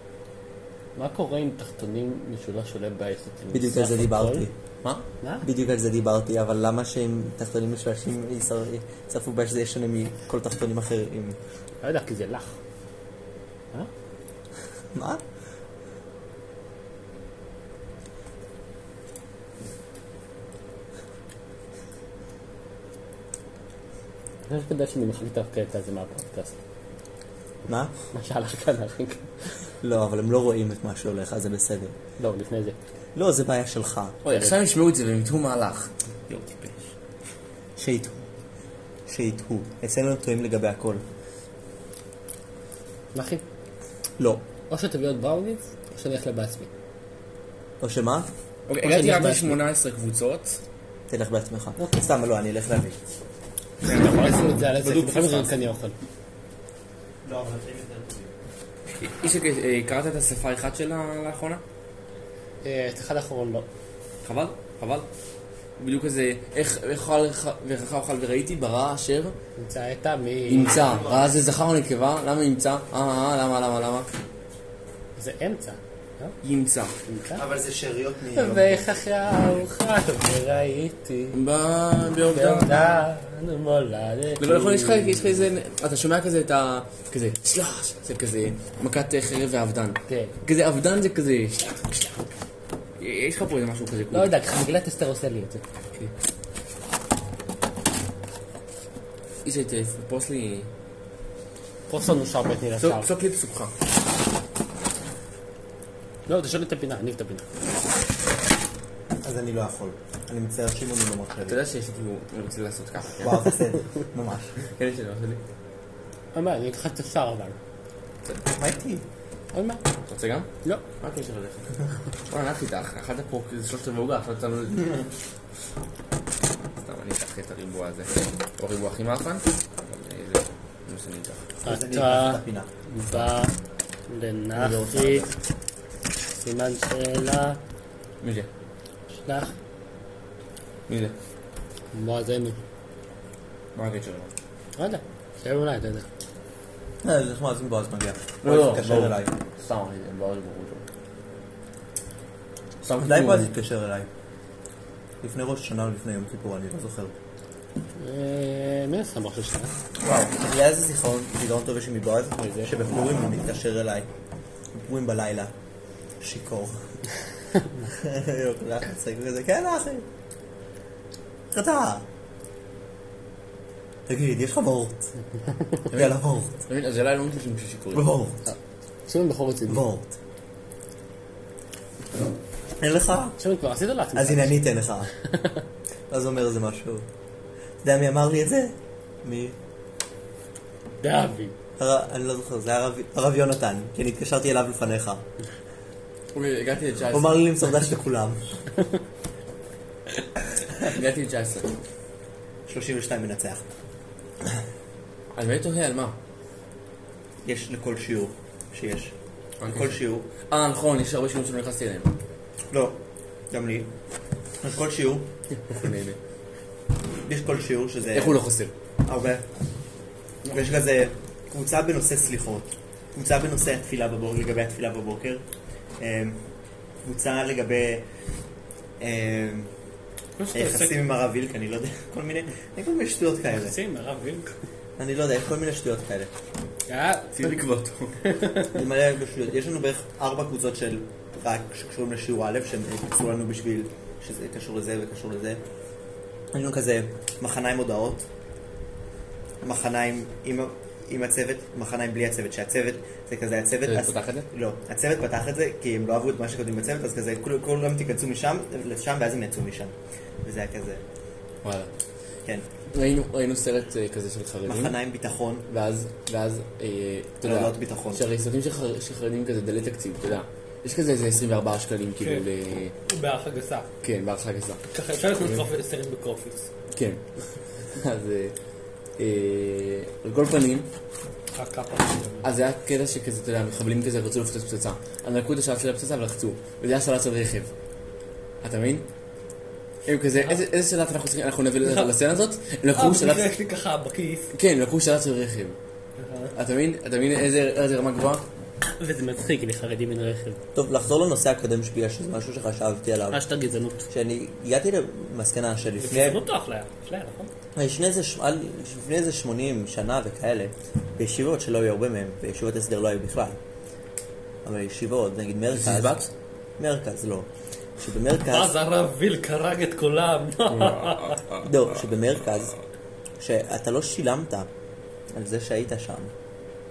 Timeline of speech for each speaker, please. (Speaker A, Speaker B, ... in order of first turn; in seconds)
Speaker A: 1.0-4.5, 11.8-12.6, 24.5-26.6, 28.1-29.5, 32.2-32.8, 43.1-43.4, 44.7-46.7, 48.8-49.6, 51.8-52.0, 53.9-56.0, 62.6-63.7, 69.6-70.8, 75.2-76.3, 77.1-77.4, 78.3-81.4, 82.3-85.4, 90.1-90.3, 94.1-95.6, 101.9-103.1, 106.3-107.5, 116.3-117.6, 119.5-119.8, 131.6-133.5, 134.1-135.3, 136.3-137.6, 139.2-139.5, 141.9-142.6, 144.8-146.1, 158.0-159.7, 162.4-162.7, 178.5-179.8, 183.4-184.6, 191.0-191.5, 230.4-231.0, 233.6-234.5, 236.9-237.5, 238.2-238.8, 273.1-273.9, 274.9-276.7, 281.6-282.5, 291.8-292.1, 292.9-294.5, 296.2-296.5, 298.9-300.6, 303.3-304.1, 306.0-307.5, 318.5-321.4
Speaker B: 3.5-4.5, 5.4-11.4, 14.9-15.2, 27.7-27.9, 29.8-31.9, 33.1-34.2, 37.8-38.3, 39.1-41.0, 44.2-44.4, 47.8-48.3, 51.1-53.0, 57.2-58.3, 70.7-71.3, 77.3-78.9, 109.2-111.6, 113.2-114.6, 118.5-119.0, 131.7-132.7, 147.0-149.3, 153.0-154.1, 155.2-157.1, 160.0-164.1, 164.7-165.5, 166.2-166.8, 167.9-170.1, 171.5-172.1, 174.1-175.1, 175.9-176.6, 177.9-178.4, 179.7-180.2, 182.8-183.4, 184.2-185.1, 186.1-187.1, 187.8-189.6, 191.8-195.3, 197.1-198.5, 202.7-203.6, 207.4-209.1, 209.7-210.3, 212.7-213.0, 213.5-213.9, 214.6-215.3, 217.2-218.4, 219.1-219.5, 220.5-225.4, 226.0-226.4, 227.0-228.1, 229.0-229.7, 230.5-233.8, 235.0-236.3, 238.7-245.6, 246.5-248.3, 249.6-261.0, 264.7-265.7, 267.4-268.2, 300.8-303.4, 304.1-306.4, 307.8-313.6, 314.6-316.2, 316.8-318.7, 321.6-322.7, 323.4-324.7, 325.3-326.3
Speaker C: 34.2-36.8, 48.7-50.6, 53.8-55.7, 59.0-61.6, 64.2-65.1, 65.8-69.3, 70.5-74.1, 76.4-76.9, 81.3-83.1, 84.4-92.1, 93.0-94.3, 99.4-100.7, 102.8-103.7, 111.5-113.5, 114.6-115.4, 120.1-125.0, 126.8-131.5, 138.2-138.5, 140.9-141.2, 143.8-144.3, 148.4-150.8, 152.8-153.5, 175.9-178.1, 196.3-197.4, 200.8-201.7, 205.3-206.2, 209.6-212.1, 215.6-216.2, 218.1-218.7, 237.3-238.2, 253.9-254.5, 261.6-261.9, 262.9-265.0, 265.7-272.9, 274.0-274.8, 275.4-275.7, 276.9-277.2, 277.9-278.6, 279.2-280.9, 282.4-287.7, 288.6-289.1, 290.1-293.5, 294.5-295.8, 296.6-298.4, 315.7-316.3, 320.7-321.8